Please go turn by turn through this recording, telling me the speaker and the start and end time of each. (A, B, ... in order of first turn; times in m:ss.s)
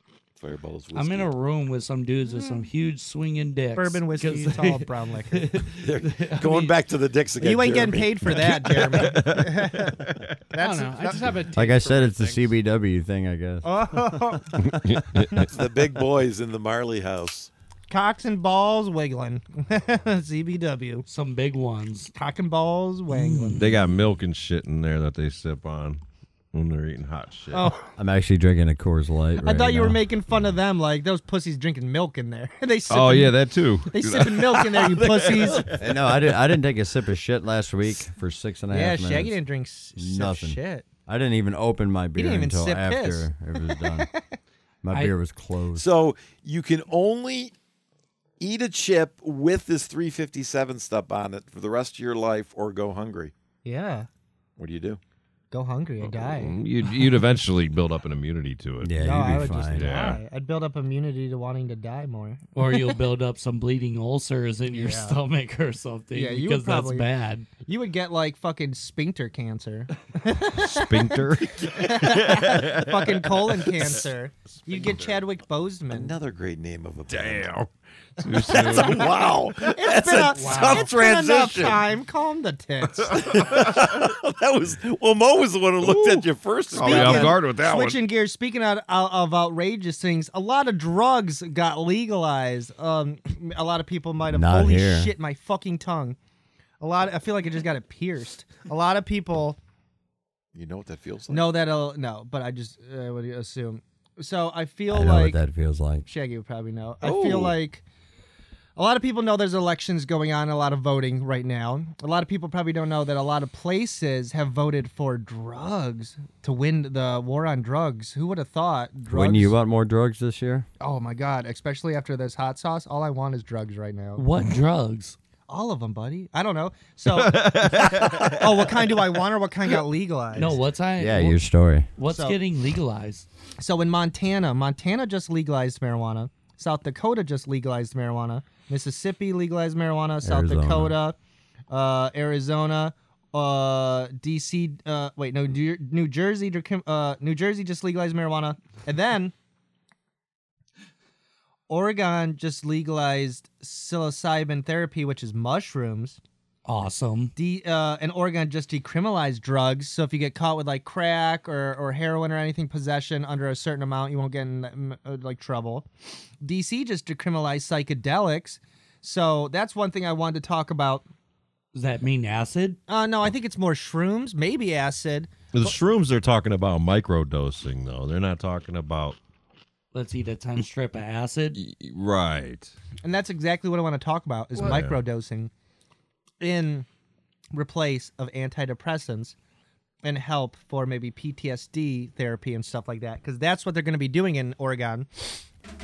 0:00.4-0:01.3 A
0:00.9-0:06.8 B
0:02.3-0:02.7 C
0:03.8-0:05.5 C
0:05.7-0:08.4 A
0:07.4-0:11.4 C
0:08.3-0:10.3 D
0:10.6-0:12.5 E
0:11.5-0:14.4 F
0:13.6-0:14.8 C
0:14.6-0:15.5 D
0:15.4-0:17.5 A
0:17.9-0:21.1 C
0:21.1-0:22.1 B
0:22.2-0:23.7 C
0:23.1-0:23.7 B
0:23.6-0:26.0 D
0:26.5-0:27.7 D
0:27.5-0:27.9 C
0:28.0-0:30.0 F
0:29.4-0:35.8 C
0:32.9-0:35.6 D
0:35.0-0:35.8 A
0:35.8-0:39.4 F
0:38.7-0:40.9 C
0:40.0-0:44.1 F
0:42.2-0:44.2 C
0:44.8-0:45.9 F
0:45.8-0:47.5 A
0:48.4-0:53.3 A
0:53.6-0:54.1 C
0:54.6-0:55.0 A
0:55.5-0:56.6 C
0:56.0-0:59.0 D
0:58.8-0:59.9 F
0:59.0-1:02.4 C
0:59.7-1:00.2 D
1:02.6-1:07.5 B
1:04.7-1:05.2 C
1:06.1-1:07.1 C
1:07.6-1:16.2 C
1:10.6-1:15.2 D
1:11.4-1:11.9 A
1:15.9-1:17.5 A
1:17.1-1:19.2 D
1:18.2-1:23.6 C
1:18.5-1:21.8 A
1:20.3-1:21.0 E
1:23.1-1:27.4 A
1:23.1-1:23.8 D
1:25.8-1:28.0 D
1:26.8-1:36.2 C
1:34.3-1:35.1 F
1:36.8-1:39.6 C
1:40.5-1:41.6 A
1:41.3-1:45.4 C
1:44.9-1:46.1 F
1:46.1-1:47.8 C
1:47.1-1:47.5 A
1:48.8-1:59.5 C
1:59.1-2:00.7 F
2:00.8-2:04.2 C
2:04.2-2:05.2 B
2:05.5-2:10.6 C
2:07.1-2:08.8 D
2:10.4-2:11.4 B
2:11.0-2:11.9 F
2:12.0-2:13.3 B
2:12.1-2:12.4 C
2:13.6-2:21.2 C
2:20.2-2:21.0 F
2:21.7-2:29.3 C
2:31.7-2:36.2 C
2:36.7-2:37.3 B
2:37.4-2:45.9 C
2:46.4-2:51.1 C
2:51.7-2:52.8 B
2:52.9-2:55.8 C
2:55.5-2:59.2 D
2:59.9-3:01.6 B
3:01.6-3:02.7 D
3:03.0-3:05.5 C
3:04.6-3:05.0 D
3:06.4-3:06.9 C
3:07.5-3:09.4 C
3:10.0-3:15.4 C